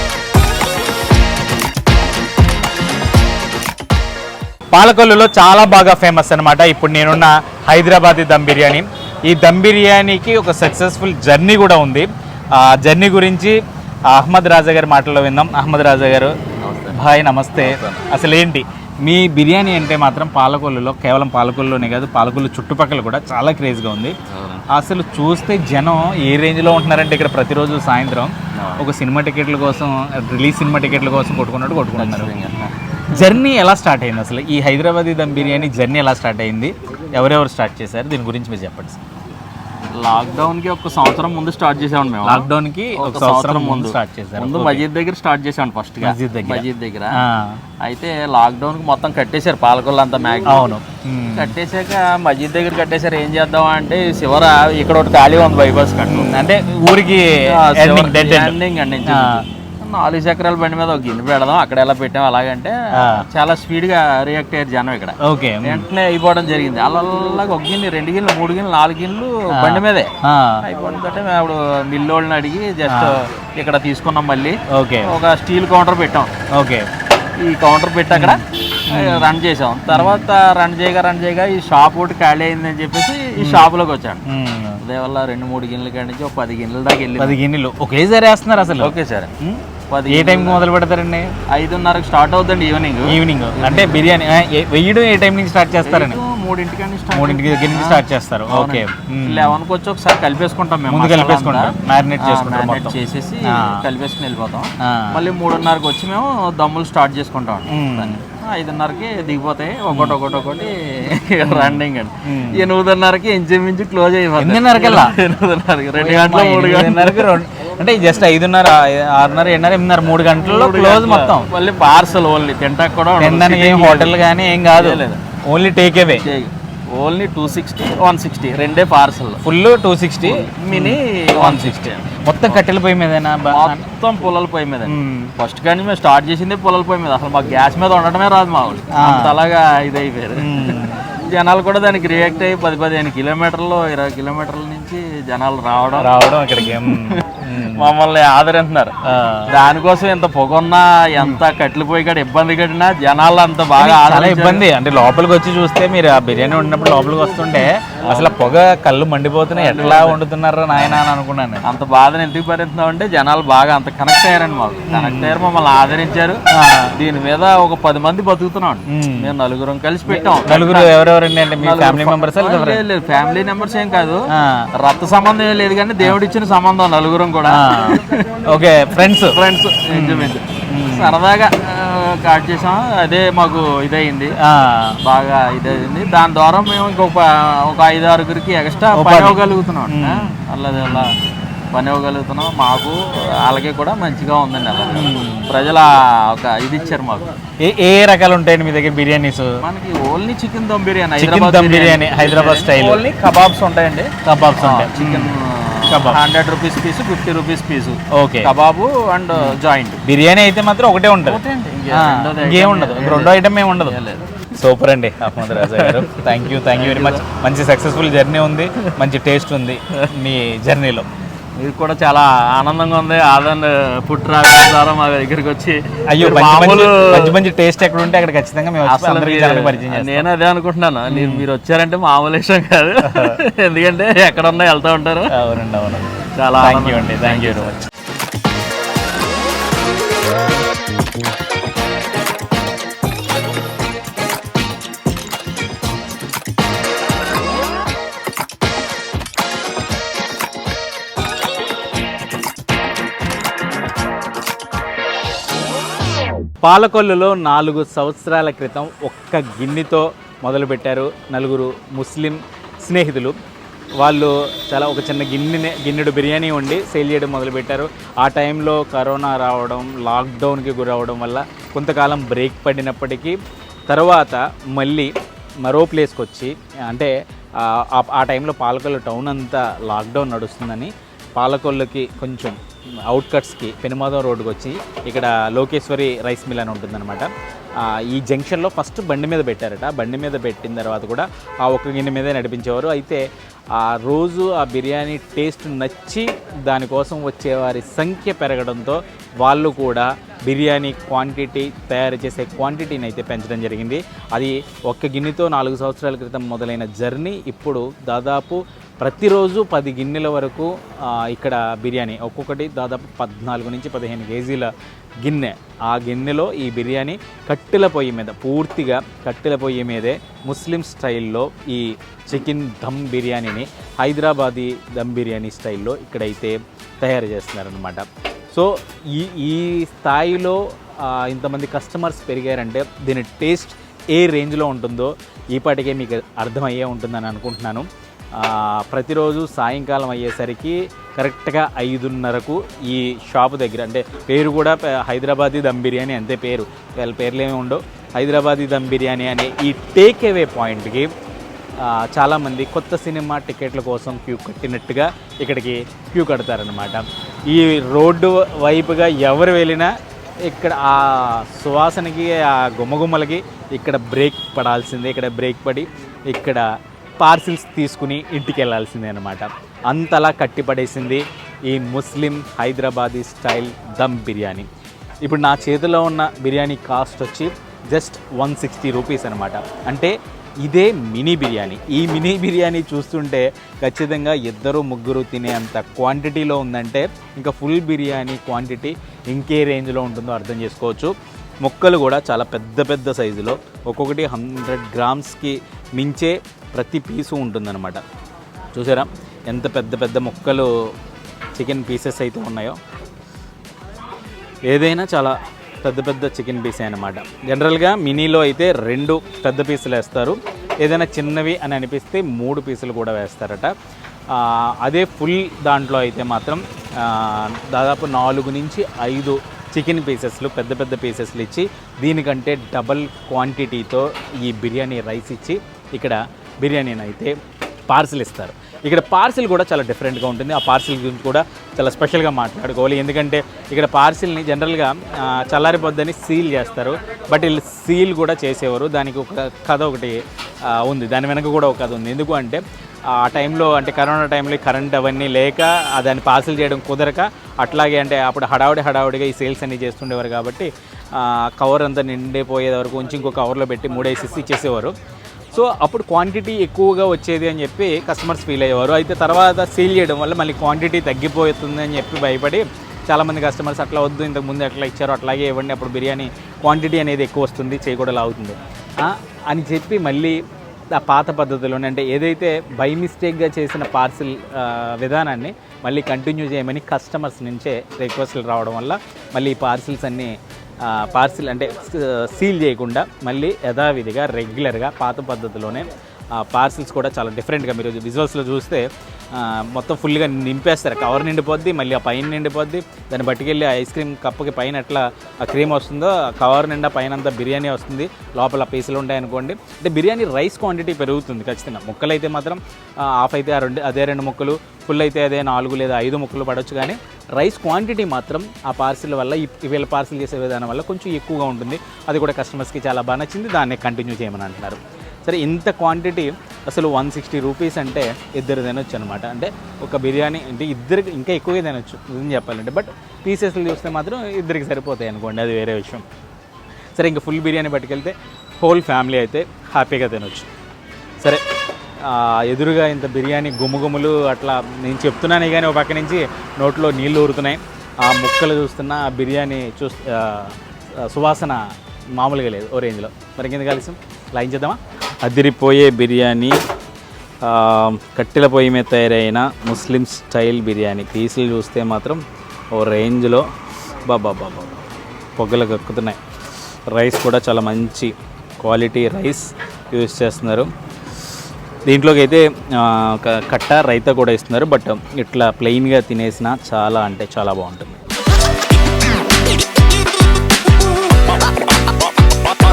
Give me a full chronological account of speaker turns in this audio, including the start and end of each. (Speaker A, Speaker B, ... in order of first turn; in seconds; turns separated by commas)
Speaker A: 4.7-13.6, Speaker A: 14.1-16.3, Speaker B: 16.6-17.0, Speaker A: 16.9-24.1, Speaker B: 17.6-18.0, Speaker B: 24.3-24.6, Speaker A: 24.7-32.3, Speaker B: 28.5-28.9, Speaker B: 31.9-32.8, Speaker A: 33.1-39.0, Speaker B: 39.9-47.2, Speaker A: 42.2-44.8, Speaker A: 46.0-47.6, Speaker B: 47.8-50.6, Speaker A: 50.5-51.5, Speaker B: 51.4-56.4, Speaker A: 56.1-59.4, Speaker B: 57.5-76.3, Speaker A: 63.0-63.2, Speaker A: 65.2-65.9, Speaker A: 69.5-70.7, Speaker A: 72.8-73.2, Speaker A: 74.7-75.1, Speaker A: 76.5-76.9, Speaker B: 77.4-84.2, Speaker A: 78.1-79.3, Speaker A: 79.9-80.2, Speaker A: 83.4-83.7, Speaker A: 84.2-84.8, Speaker B: 84.8-87.4, Speaker A: 87.2-91.3, Speaker B: 88.8-89.3, Speaker B: 89.9-90.6, Speaker B: 91.5-94.0, Speaker A: 93.1-96.2, Speaker B: 95.8-117.4, Speaker A: 97.1-99.6, Speaker A: 100.9-103.8, Speaker A: 104.8-105.2, Speaker A: 107.7-108.2, Speaker A: 109.9-110.2, Speaker A: 111.4-112.7, Speaker A: 114.4-115.2, Speaker A: 116.0-121.5, Speaker B: 120.3-124.2, Speaker A: 123.2-126.2, Speaker B: 124.7-125.2, Speaker B: 126.1-129.4, Speaker A: 129.4-133.8, Speaker B: 130.2-132.6, Speaker B: 133.5-148.9, Speaker A: 134.8-135.3, Speaker A: 138.9-139.4, Speaker A: 140.3-141.0, Speaker A: 146.0-147.9, Speaker A: 149.0-149.6, Speaker B: 149.5-154.7, Speaker A: 153.8-161.6, Speaker B: 158.0-158.3, Speaker B: 159.5-160.2, Speaker B: 161.6-166.4, Speaker A: 164.9-165.4, Speaker A: 166.5-167.0, Speaker B: 166.9-170.9, Speaker A: 168.9-169.3, Speaker A: 170.1-172.8, Speaker B: 171.6-178.4, Speaker A: 174.3-174.7, Speaker A: 177.5-181.2, Speaker B: 178.9-184.4, Speaker A: 184.4-185.0, Speaker B: 185.0-191.2, Speaker A: 188.9-191.1, Speaker B: 191.7-197.3, Speaker A: 194.9-195.5, Speaker A: 197.6-199.6, Speaker B: 199.6-210.0, Speaker A: 201.2-203.0, Speaker A: 204.2-205.3, Speaker A: 205.9-206.2, Speaker A: 208.1-208.5, Speaker A: 209.3-214.0, Speaker B: 211.2-214.2, Speaker A: 214.5-221.1, Speaker B: 215.4-217.2, Speaker B: 221.6-227.4, Speaker A: 226.1-230.3, Speaker B: 228.8-235.3, Speaker A: 231.1-231.4, Speaker A: 233.0-233.4, Speaker A: 235.3-237.8, Speaker B: 236.4-237.8, Speaker A: 256.6-263.3, Speaker A: 264.0-273.4, Speaker A: 273.9-275.1, Speaker A: 275.6-314.7, Speaker A: 315.2-351.1, Speaker A: 351.8-366.6, Speaker A: 367.2-374.7, Speaker A: 375.2-398.0, Speaker A: 398.7-400.7, Speaker A: 401.5-402.8, Speaker A: 404.7-413.7, Speaker A: 414.3-427.4, Speaker A: 427.9-442.6, Speaker A: 443.1-454.9, Speaker A: 455.5-470.4, Speaker A: 470.9-526.0, Speaker A: 527.0-530.5, Speaker A: 532.0-541.6, Speaker A: 542.1-546.6, Speaker A: 547.4-552.2, Speaker A: 552.7-553.4, Speaker A: 554.0-554.8, Speaker A: 555.4-556.2, Speaker A: 556.9-560.7, Speaker A: 561.9-568.0